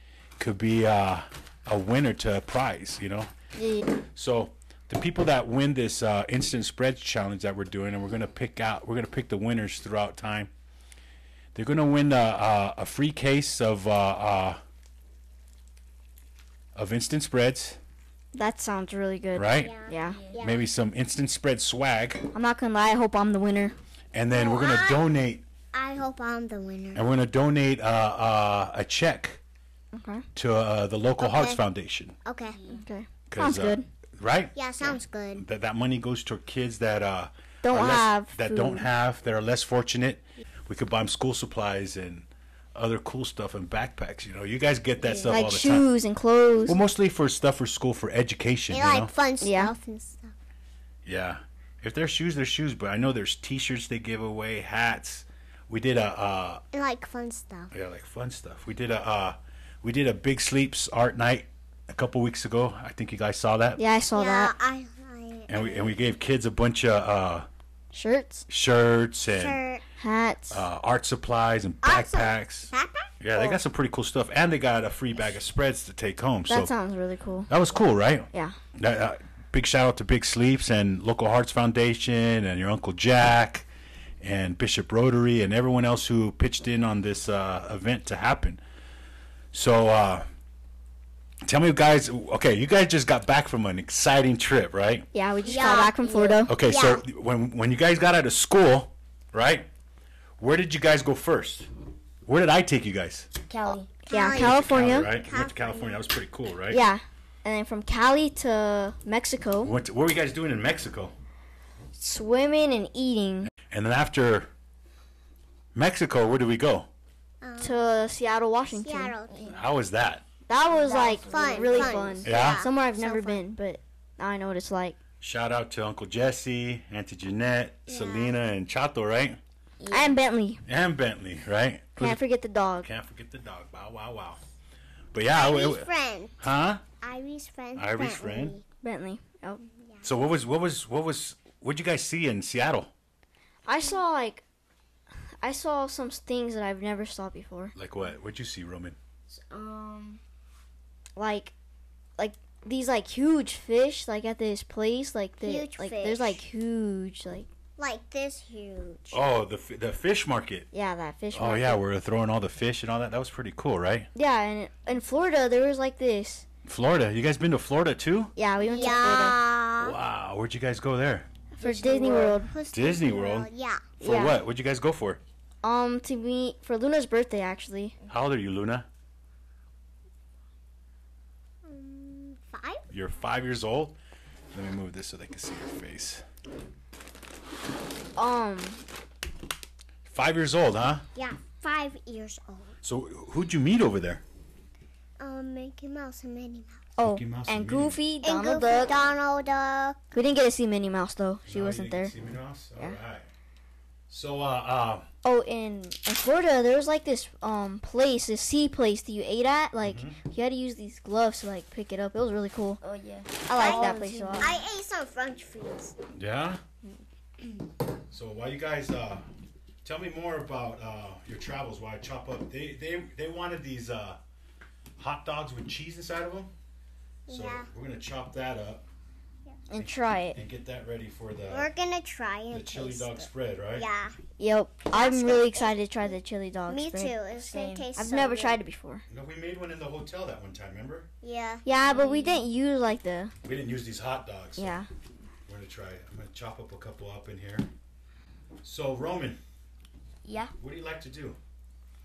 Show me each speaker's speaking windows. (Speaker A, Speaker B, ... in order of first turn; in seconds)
Speaker A: 0.4-3.3, 4.1-10.5, 11.5-14.6, 16.8-17.8, 19.3-19.8, 20.4-22.3, 24.1-25.4, 26.9-29.4, 30.3-32.2, 33.3-45.9, 46.7-49.1, 51.0-56.6, 57.7-63.8, 65.5-67.5, 68.5-69.6, 70.5-76.7, 77.5-83.7, 84.2-88.6, 89.5-90.3, 91.4-95.1, 96.5-99.7, 100.4-101.7, 102.2-103.3, 104.2-106.8, 109.6-111.1, 113.5-114.5, 115.7-116.9, 119.5-120.2, 122.2-122.7, 125.2-129.4, 130.7-132.2, 132.8-134.4, 135.1-136.8, 137.8-138.6, 140.0-142.9, 147.8-149.0, 159.1-160.7, 161.3-164.1, 166.7-168.3, 169.8-171.3, 172.7-173.5, 174.0-175.2, 178.1-178.9, 182.9-183.9, 184.5-186.2, 190.1-191.1, 192.8-194.2, 197.0-198.0, 201.4-203.3, 204.1-205.1, 209.8-210.2, 216.1-216.6, 218.1-219.2, 219.8-224.2, 225.0-226.5, 227.3-228.9, 229.8-231.7, 232.5-233.9, 239.1-241.1, 243.4-244.8, 245.4-247.7, 248.6-249.4, 250.6-251.4
Speaker B: 3.6-3.9, 18.3-20.2, 22.3-23.8, 29.9-30.2, 32.7-33.9, 37.6-38.9, 45.3-46.8, 49.4-49.7, 63.8-64.5, 67.9-68.5, 70.0-70.7, 76.5-77.5, 95.1-96.6, 104.1-105.1, 106.7-109.7, 112.0-113.5, 117.6-119.2, 120.5-125.0, 129.9-130.6, 132.0-132.9, 138.8-139.6, 143.7-144.4, 145.4-147.8, 151.2-151.5, 152.2-157.5, 160.7-161.8, 164.1-166.4, 168.4-169.4, 171.6-172.5, 174.0-174.4, 175.6-178.0, 188.2-188.8, 197.0-199.1, 200.1-202.1, 205.2-212.8, 213.5-214.6, 229.7-230.4, 234.4-237.2, 237.9-239.0, 241.6-243.3, 244.6-244.9
Speaker C: 19.5-20.7, 24.3-25.0, 25.7-27.0, 31.2-31.6, 32.2-32.6, 34.5-35.4, 48.7-50.3, 56.7-57.7, 64.1-66.0, 69.3-69.8, 71.8-73.6, 95.4-97.0, 104.1-106.0, 117.4-117.8, 118.7-119.6, 121.2-123.4, 127.9-128.4, 135.3-136.4, 137.0-138.6, 139.6-140.1, 155.4-156.4, 157.8-159.2, 168.6-169.9, 171.6-173.9, 181.6-182.8, 191.1-192.8, 195.2-196.9, 198.2-200.0, 213.6-215.9, 227.3-227.7, 231.5-234.2, 234.9-236.2, 236.7-238.6, 241.2-241.7
Speaker D: 20.0-20.4, 32.5-32.8, 45.0-45.3, 95.4-96.4, 103.5-103.9, 119.3-119.6, 120.7-122.2, 129.8-130.2, 149.3-150.2, 168.6-169.3, 171.6-172.3, 212.8-214.6, 237.3-237.9, 241.8-242.4, 250.2-250.5